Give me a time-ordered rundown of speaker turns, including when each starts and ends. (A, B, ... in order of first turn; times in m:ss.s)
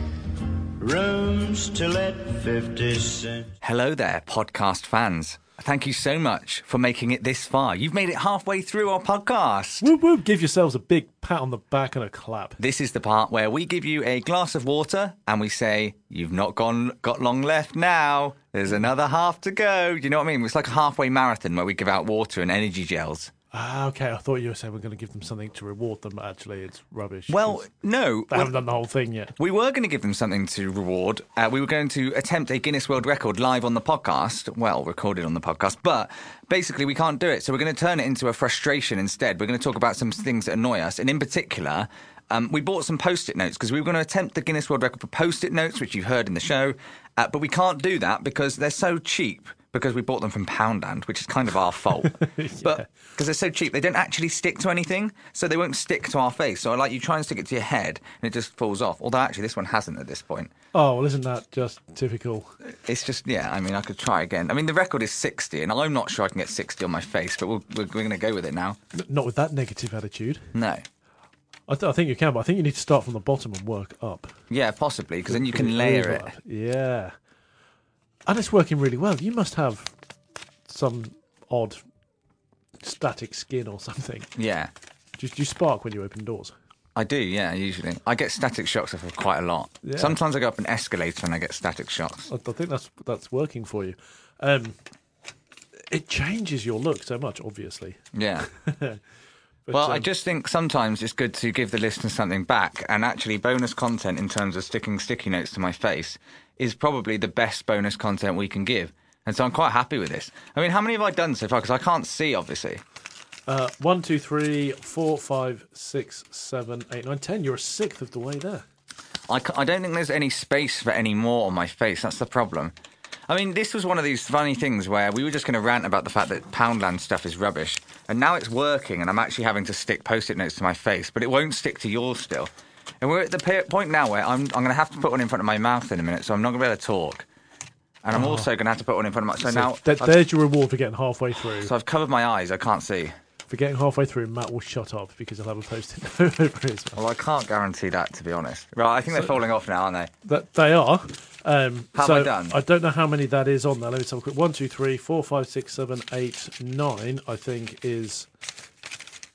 0:00.8-0:03.5 A
0:03.6-0:09.9 B
0:09.8-0:12.6 C
0:12.6-0:23.3 B
0:23.5-0:27.6 C
0:27.3-0:28.6 B
0:28.3-0:29.3 C
0:29.4-1:00.5 B
0:52.2-0:52.8 C
1:00.7-1:02.5 C
1:02.8-1:08.8 B
1:08.9-1:10.5 C
1:10.5-1:10.8 B
1:11.7-1:14.3 C
1:14.5-1:16.3 B
1:15.3-1:17.1 C
1:18.2-1:19.9 C
1:20.7-1:21.8 C
1:22.8-1:24.3 C
1:24.4-1:24.7 B
1:25.2-1:26.5 C
1:26.9-1:32.3 B
1:29.8-1:30.2 C
1:32.3-1:34.8 C
1:35.9-1:38.0 C
1:38.1-1:38.5 B
1:38.5-1:39.0 C
1:39.6-1:40.1 C
1:39.7-1:52.8 B
1:53.5-1:58.6 C
1:59.3-2:02.7 B
2:03.3-2:17.2 B
2:18.0-2:20.2 B
2:18.1-2:18.5 C
2:19.4-2:21.7 C
2:21.6-2:23.1 B
2:23.5-2:27.0 C
2:26.9-2:30.1 B
2:30.2-2:38.3 C
2:31.9-2:32.6 B